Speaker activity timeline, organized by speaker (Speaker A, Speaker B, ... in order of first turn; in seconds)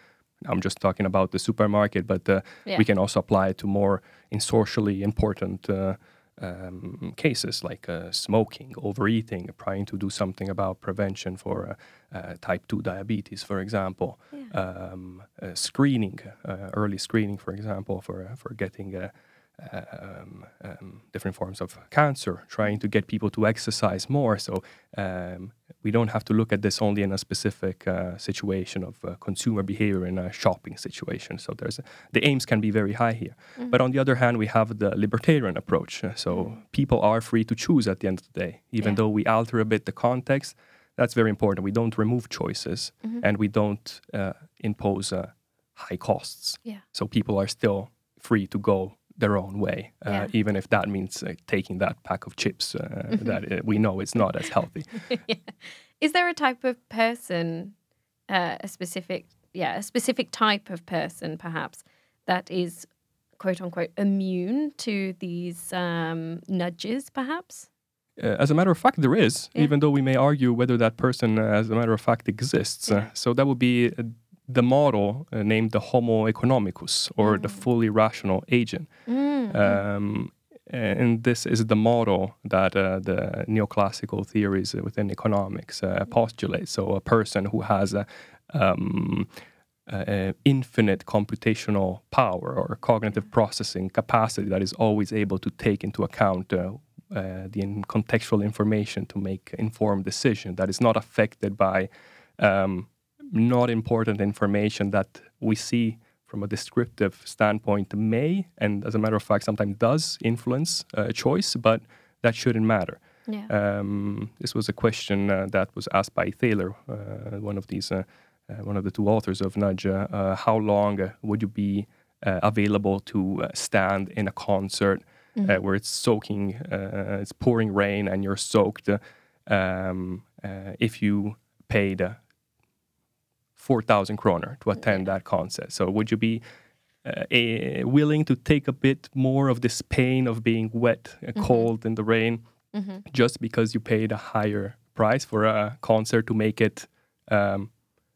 Speaker A: 0.4-54.9, 68.2-78.9, 79.5-89.3, 89.9-132.2, 133.6-136.4, 137.0-142.4, 143.1-147.7
Speaker B: 53.1-53.4, 55.0-57.7, 58.3-62.9, 63.4-67.7, 77.2-77.6, 79.1-79.8, 141.3-141.7, 142.7-143.0